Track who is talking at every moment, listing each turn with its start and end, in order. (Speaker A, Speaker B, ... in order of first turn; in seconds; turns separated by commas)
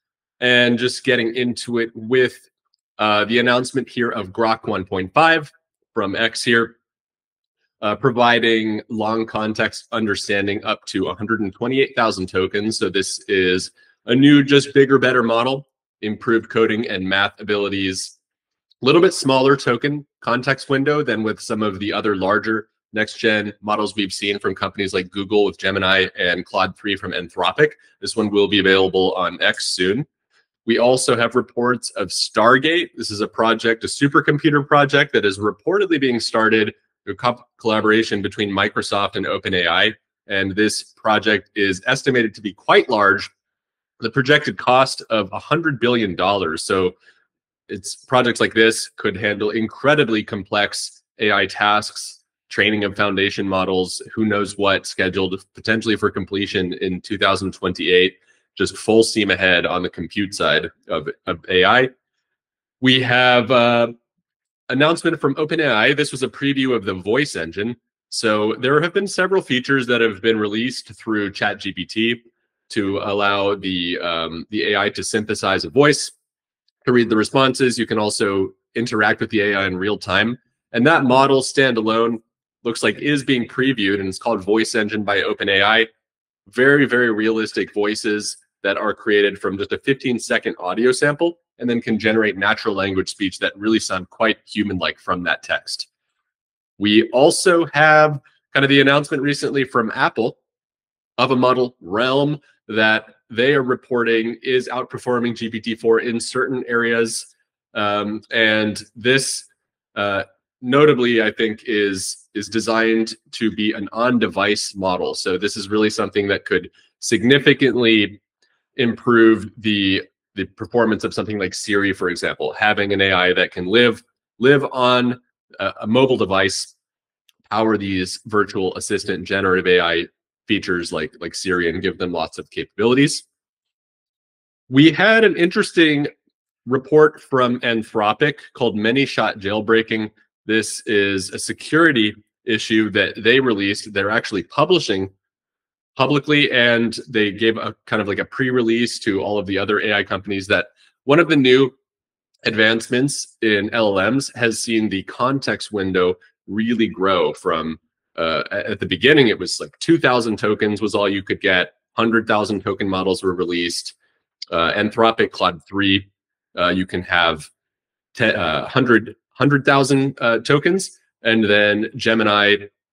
Speaker A: 0.4-2.4, Speaker A: 3.0-6.8, Speaker A: 7.8-18.1, Speaker A: 18.8-30.1, Speaker A: 30.6-43.3, Speaker A: 44.0-46.9, Speaker A: 47.7-61.9, Speaker A: 62.8-63.9, Speaker A: 64.7-76.1, Speaker A: 76.8-85.9, Speaker A: 86.5-95.9, Speaker A: 96.8-100.4, Speaker A: 101.2-118.2, Speaker A: 118.8-126.7, Speaker A: 127.5-133.2, Speaker A: 134.7-136.1, Speaker A: 136.7-145.1, Speaker A: 145.9-151.7, Speaker A: 152.4-163.9, Speaker A: 164.5-167.5, Speaker A: 168.1-172.7